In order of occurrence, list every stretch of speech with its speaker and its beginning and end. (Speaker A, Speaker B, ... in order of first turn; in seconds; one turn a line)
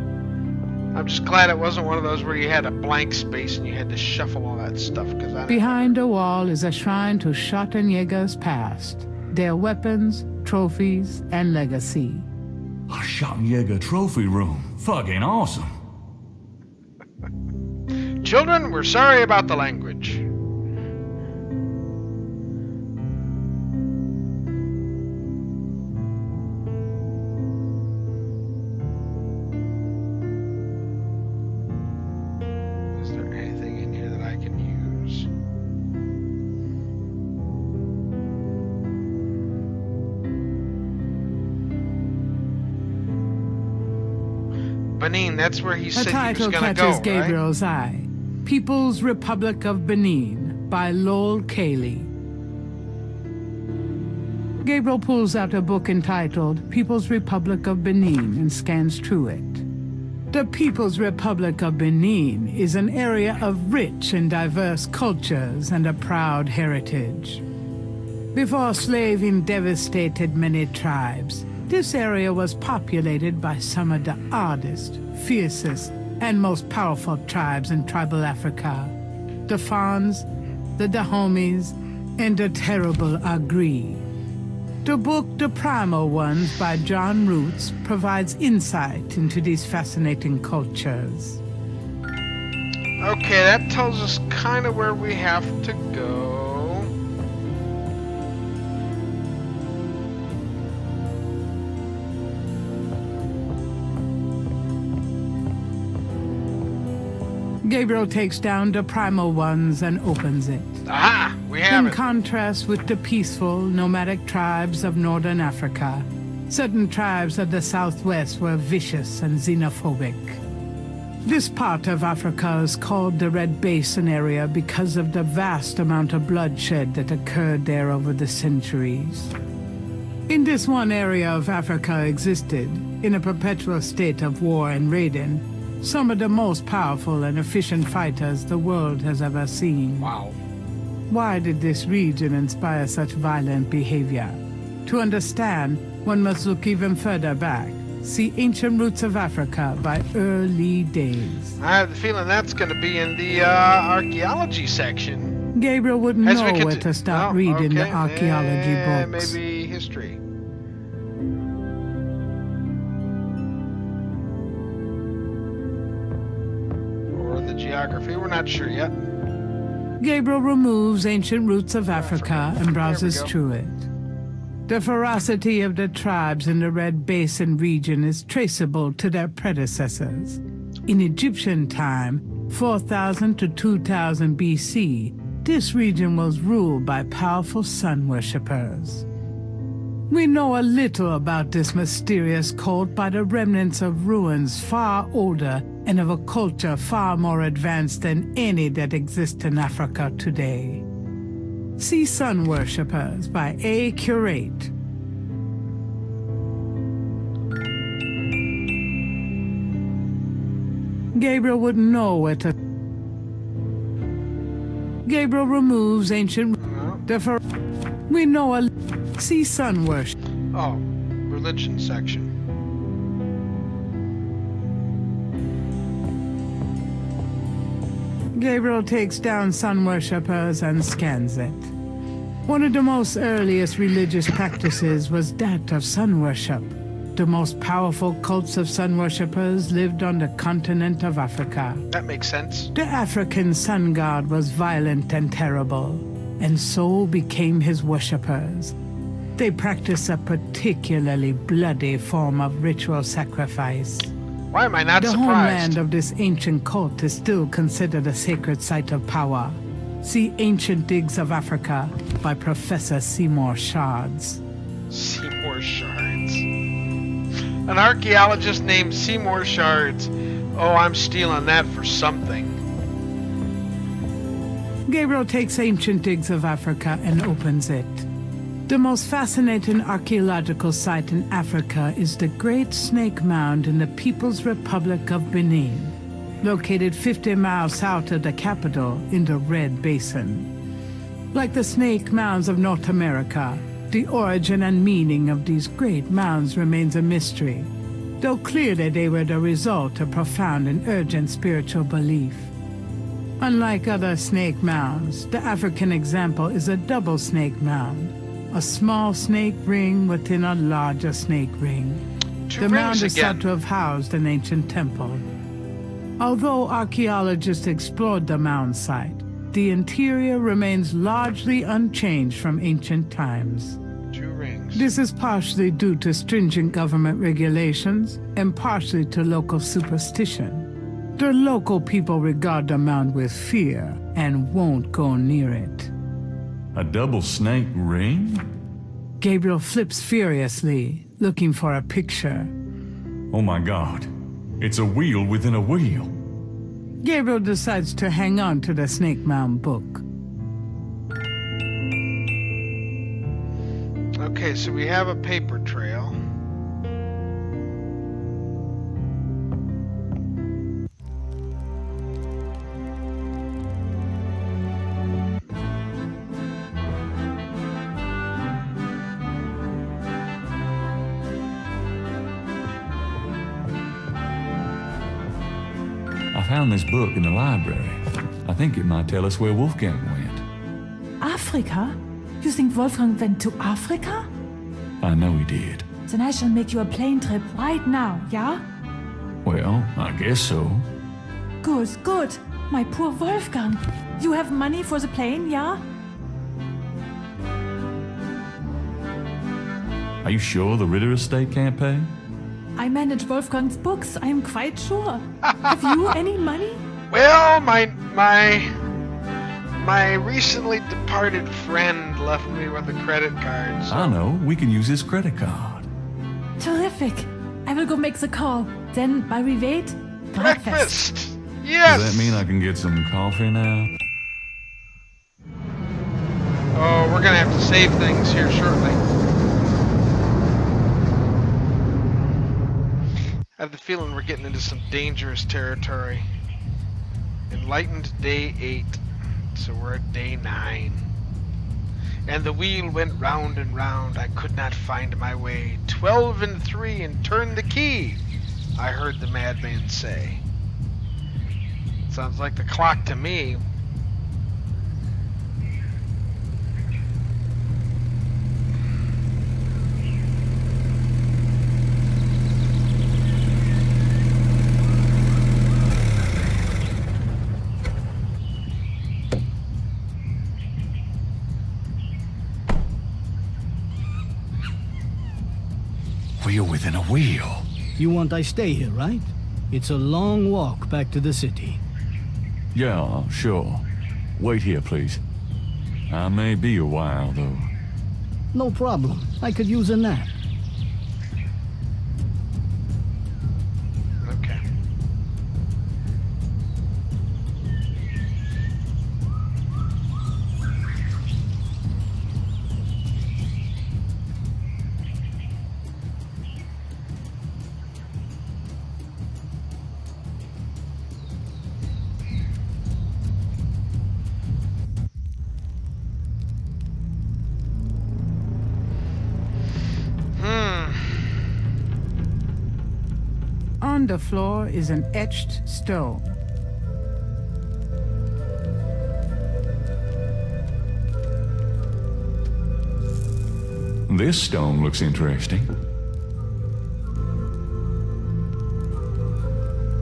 Speaker A: 0.9-5.9
Speaker B: 5.5-12.3
Speaker C: 12.9-15.8
Speaker A: 18.2-20.2
Speaker A: 32.9-35.3
Speaker A: 45.0-47.4
Speaker B: 45.9-52.1
Speaker B: 54.6-59.6
Speaker B: 60.3-67.4
Speaker B: 68.3-79.0
Speaker B: 79.5-80.3
Speaker B: 80.8-84.0
Speaker B: 84.8-91.4
Speaker A: 93.0-96.9
Speaker B: 107.6-110.8
Speaker A: 110.9-112.0
Speaker B: 111.7-120.4
Speaker B: 121.2-129.3
Speaker B: 130.3-140.1
Speaker A: 140.0-140.4
Speaker B: 141.1-151.6
Speaker A: 151.6-155.4
Speaker B: 155.5-159.4
Speaker A: 156.2-160.2
Speaker A: 167.1-169.0
Speaker B: 170.0-173.9
Speaker A: 171.9-173.3
Speaker B: 174.7-189.1
Speaker B: 190.1-200.8
Speaker B: 201.8-204.7
Speaker B: 211.1-212.6
Speaker B: 215.1-217.4
Speaker A: 216.6-217.0
Speaker B: 218.1-220.2
Speaker A: 220.5-222.3
Speaker B: 228.3-231.7
Speaker B: 232.5-241.8
Speaker A: 241.9-242.7
Speaker B: 242.7-248.8
Speaker B: 249.4-254.1
Speaker A: 254.5-255.8
Speaker B: 255.0-264.4
Speaker A: 264.9-266.5
Speaker A: 267.7-272.6
Speaker B: 274.9-278.1
Speaker B: 278.7-290.5
Speaker B: 291.3-302.5
Speaker B: 303.4-312.1
Speaker A: 312.5-313.5
Speaker B: 312.6-315.2
Speaker B: 316.2-323.8
Speaker A: 324.1-324.9
Speaker B: 324.8-335.9
Speaker C: 336.7-338.4
Speaker B: 339.2-342.5
Speaker C: 343.3-344.1
Speaker C: 344.6-346.1
Speaker B: 347.0-350.0
Speaker A: 354.2-356.2
Speaker C: 376.3-380.4
Speaker D: 381.2-384.3
Speaker C: 385.0-385.9
Speaker D: 386.1-388.6
Speaker C: 389.4-390.9
Speaker D: 391.6-395.8
Speaker C: 400.2-402.1
Speaker D: 402.8-406.8
Speaker A: 405.4-405.9
Speaker A: 407.1-408.7
Speaker A: 409.8-414.2
Speaker C: 413.9-415.9
Speaker D: 416.6-421.0
Speaker A: 420.4-422.4
Speaker C: 421.9-423.9
Speaker A: 426.7-429.0
Speaker A: 433.6-436.2
Speaker A: 437.5-439.0
Speaker A: 439.6-441.0
Speaker A: 442.3-448.2
Speaker A: 448.8-450.4
Speaker A: 452.0-453.6
Speaker C: 476.4-477.7
Speaker E: 478.0-481.8
Speaker C: 482.7-485.2
Speaker C: 486.1-487.7
Speaker E: 488.5-490.4
Speaker A: 494.2-494.6
Speaker A: 520.4-521.3
Speaker B: 523.8-526.4
Speaker C: 534.1-535.7